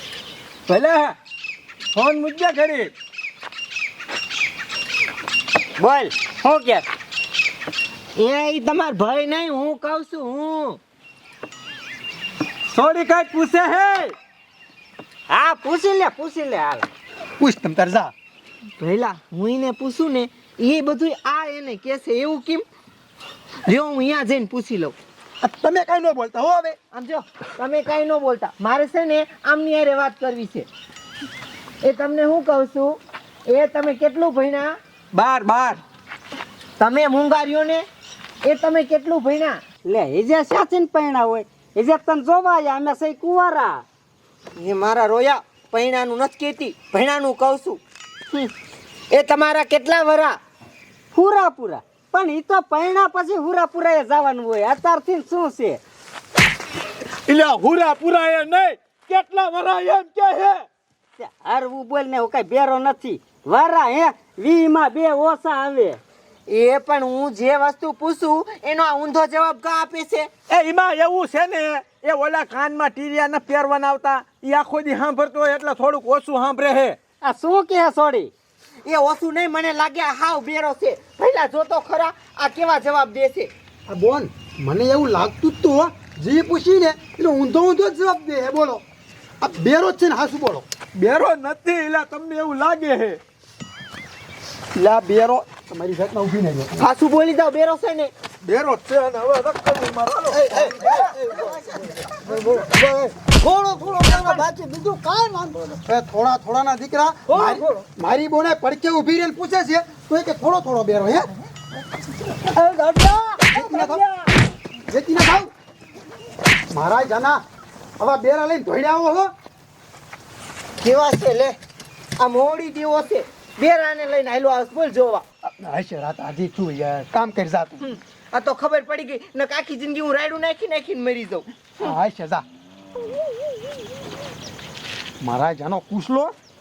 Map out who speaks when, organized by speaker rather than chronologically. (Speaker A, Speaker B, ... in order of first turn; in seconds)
Speaker A: 0.7-1.1, 1.9-2.9, 12.7-14.1, 35.1-35.8, 57.2-60.6, 70.5-77.0, 90.9-93.2, 98.4-101.5
Speaker B: 5.8-6.9, 15.3-16.9, 39.8-43.8, 51.1-55.8, 61.2-66.0, 77.2-78.3
Speaker C: 8.2-10.8, 18.8-22.6, 23.6-24.9, 26.9-30.7, 31.8-34.8, 36.8-37.8, 38.4-39.6, 44.5-47.8, 49.1-50.4, 66.5-70.3, 78.8-83.5, 96.8-98.1, 100.4-101.4, 120.8-121.6, 122.2-125.2, 127.9-131.9
Speaker D: 17.4-18.1, 25.4-26.8, 83.9-88.8, 89.4-90.7, 94.8-96.8, 100.9-102.0, 105.8-111.3, 113.5-114.0, 114.9-115.5, 116.7-117.4, 118.0-119.3, 125.4-127.8, 131.8-132.4, 135.2-136.3
Speaker E: 102.2-105.8, 107.3-107.8, 112.2-114.3